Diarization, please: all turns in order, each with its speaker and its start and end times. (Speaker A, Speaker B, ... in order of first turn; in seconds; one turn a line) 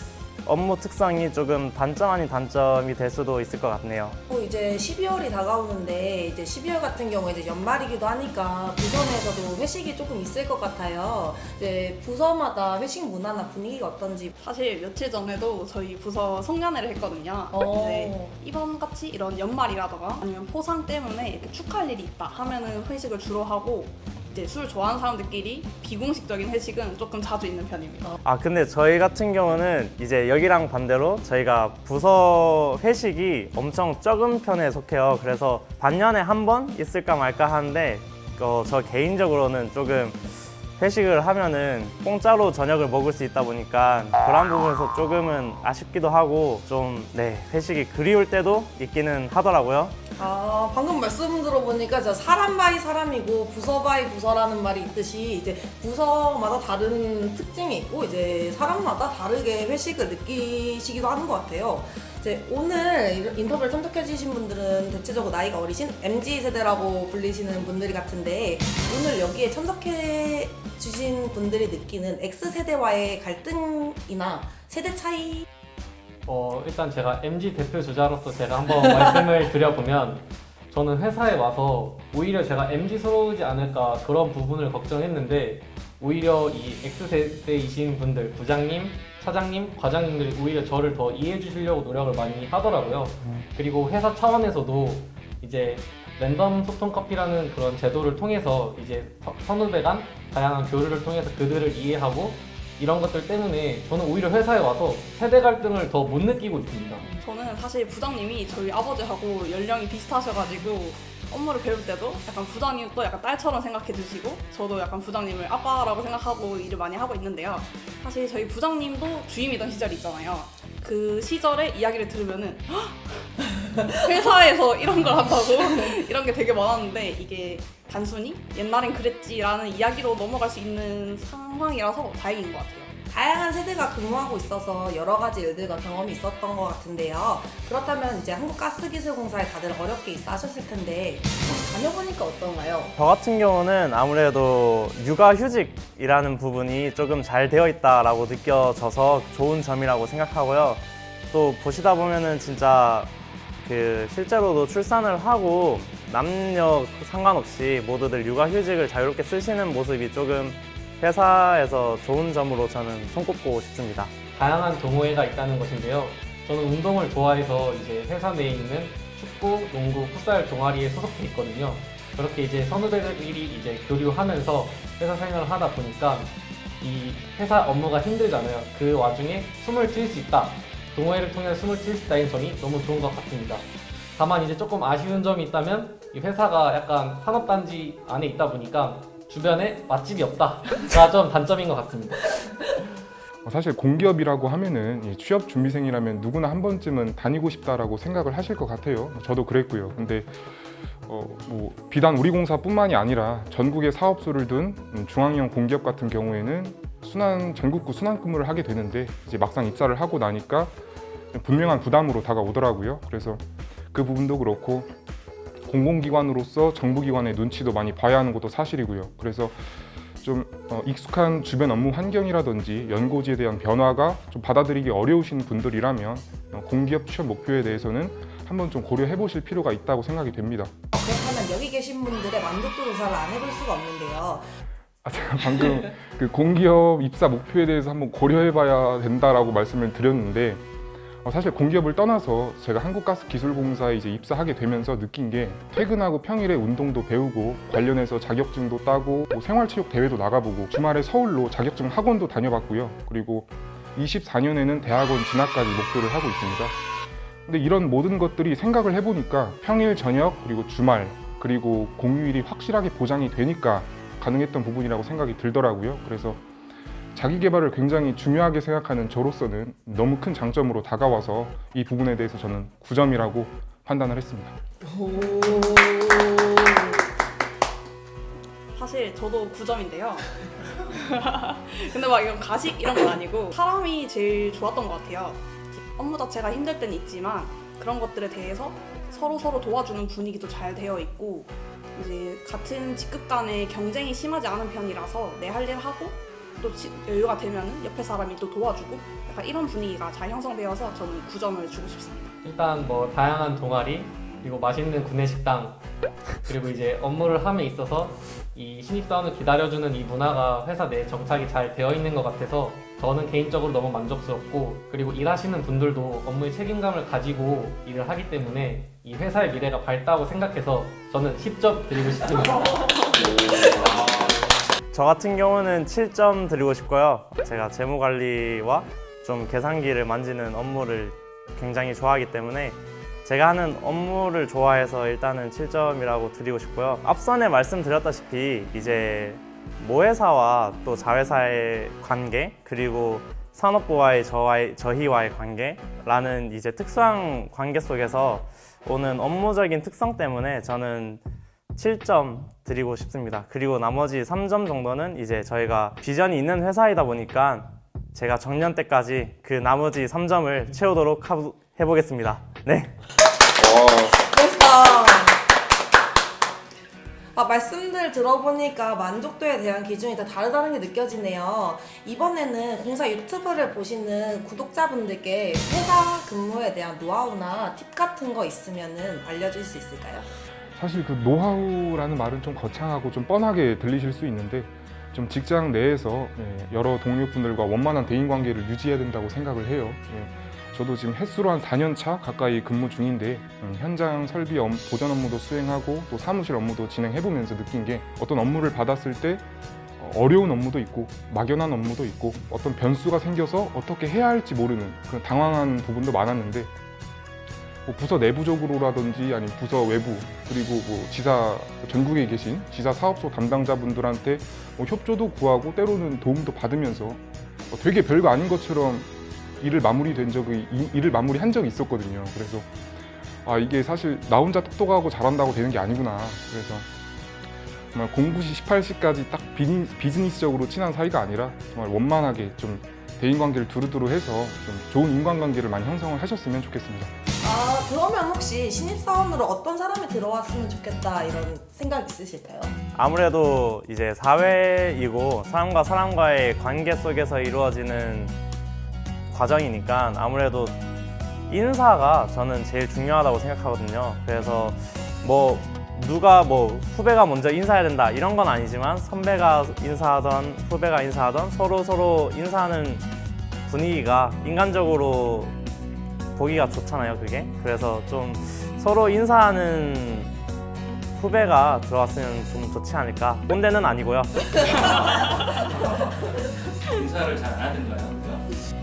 Speaker A: 0.4-4.2
Speaker B: 4.3-14.3
Speaker C: 14.4-28.2
Speaker B: 17.5-18.4
Speaker A: 28.2-50.0
Speaker B: 50.2-75.5
Speaker D: 76.2-107.1
Speaker C: 107.2-132.9
Speaker B: 133.1-142.9
Speaker A: 142.9-153.1
Speaker A: 153.6-164.1
Speaker D: 164.3-192.4
Speaker E: 193.4-200.3
Speaker E: 201.1-210.7
Speaker E: 211.3-214.9
Speaker E: 215.7-219.6
Speaker E: 220.2-230.7
Speaker B: 230.9-234.5
Speaker E: 235.0-240.6
Speaker E: 241.2-256.8
Speaker E: 257.5-266.4
Speaker E: 267.1-274.6
Speaker B: 274.8-277.0
Speaker C: 278.8-302.3
Speaker D: 302.4-305.8
Speaker D: 306.4-322.9
Speaker F: 323.3-324.3
Speaker A: 324.9-351.2
Speaker A: 351.8-362.9
Speaker B: 363.6-365.4
Speaker B: 367.4-380.2
Speaker E: 380.8-399.4
Speaker E: 400.0-406.7
Speaker E: 407.9-419.1
Speaker E: 419.6-422.7
Speaker E: 423.4-426.9
Speaker E: 427.9-437.1
Speaker B: 437.4-442.8
Speaker A: 442.9-448.4
Speaker A: 449.3-450.8
Speaker A: 451.5-463.1
Speaker A: 463.7-465.5
Speaker A: 466.4-470.4
Speaker A: 471.1-475.0
Speaker F: 476.9-478.4